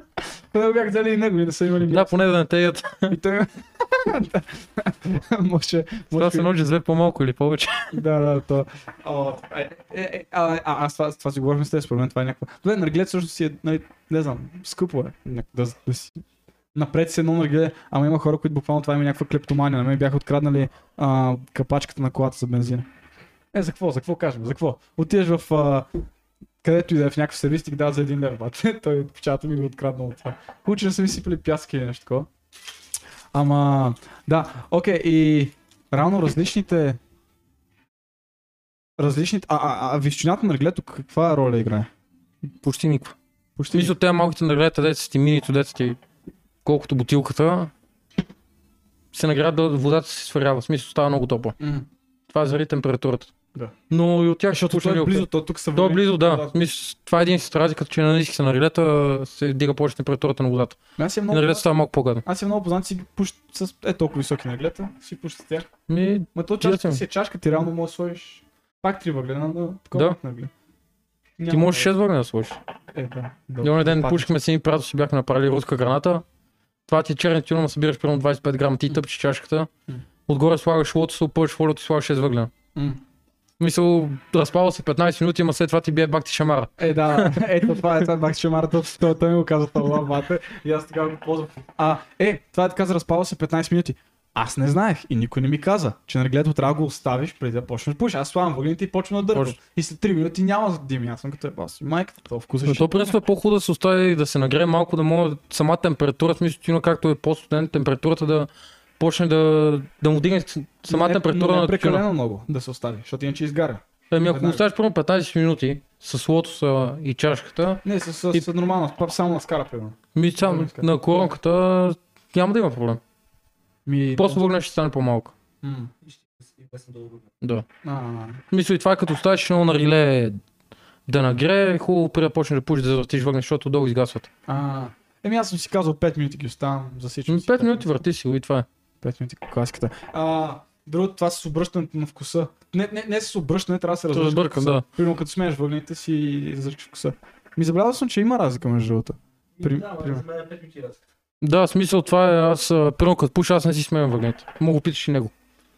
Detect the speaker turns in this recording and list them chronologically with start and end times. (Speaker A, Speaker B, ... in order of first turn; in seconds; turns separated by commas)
Speaker A: 0.5-2.1, Speaker B: 1.9-3.2, Speaker A: 3.1-6.5, Speaker B: 6.1-8.0, Speaker A: 7.9-16.2, Speaker A: 16.7-22.9, Speaker A: 23.5-25.9, Speaker A: 26.6-32.3, Speaker A: 33.3-37.0, Speaker A: 39.0-41.9, Speaker B: 42.6-43.1, Speaker A: 43.6-43.9, Speaker B: 43.7-46.0, Speaker B: 46.6-47.7, Speaker B: 49.1-51.5, Speaker A: 51.6-51.9, Speaker B: 52.3-53.3, Speaker B: 53.9-60.8, Speaker A: 54.5-56.5, Speaker A: 61.0-61.7, Speaker B: 61.3-62.2, Speaker A: 62.2-65.7, Speaker B: 65.9-67.0, Speaker A: 66.3-70.5, Speaker A: 71.4-71.9, Speaker B: 71.5-72.6, Speaker A: 72.9-74.3, Speaker B: 73.6-76.2, Speaker B: 76.9-79.7, Speaker B: 80.3-82.5, Speaker A: 82.7-83.0, Speaker B: 83.6-88.0, Speaker A: 86.8-103.1, Speaker B: 102.7-112.0, Speaker A: 110.9-114.6, Speaker B: 114.1-118.5, Speaker A: 117.8-120.9, Speaker B: 120.1-123.0, Speaker A: 123.8-124.4, Speaker B: 124.2-125.3, Speaker A: 125.6-125.9, Speaker C: 126.4-127.2, Speaker A: 127.8-128.4, Speaker B: 128.5-130.4, Speaker B: 131.1-134.3, Speaker A: 134.5-137.9, Speaker B: 137.3-138.7, Speaker A: 139.0-150.2, Speaker B: 144.1-144.8, Speaker C: 149.6-151.0, Speaker B: 151.4-155.3